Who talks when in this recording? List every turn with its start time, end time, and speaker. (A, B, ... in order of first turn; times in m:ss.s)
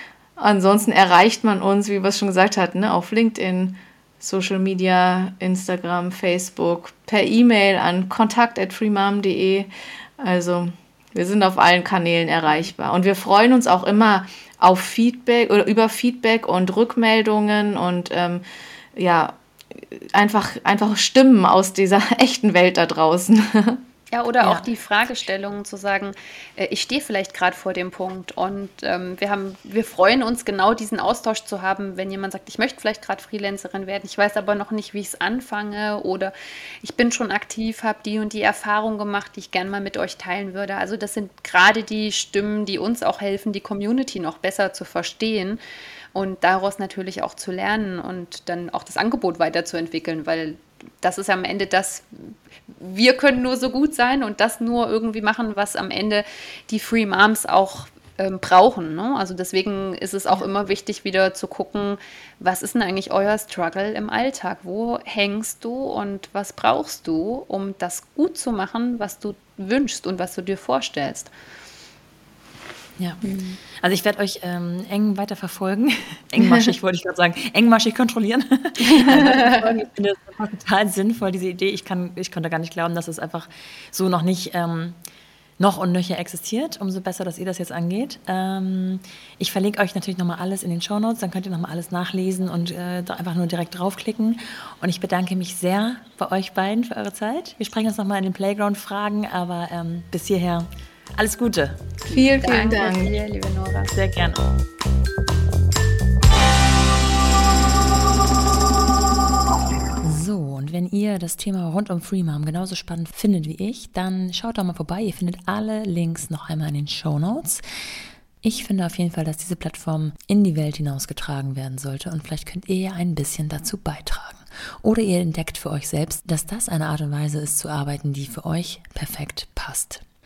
0:00.4-0:18.4 A
0:19.0-0:23.8 A
0:24.1-0:45.6 B
0:46.1-1:11.3 B
1:13.0-1:25.0 C
1:13.2-1:13.6 B
1:19.0-1:19.6 B
1:25.6-1:41.8 C
1:42.1-1:43.1 A
1:42.1-1:43.9 B
1:43.9-1:44.4 C
1:50.0-1:57.6 C
1:58.4-2:10.0 C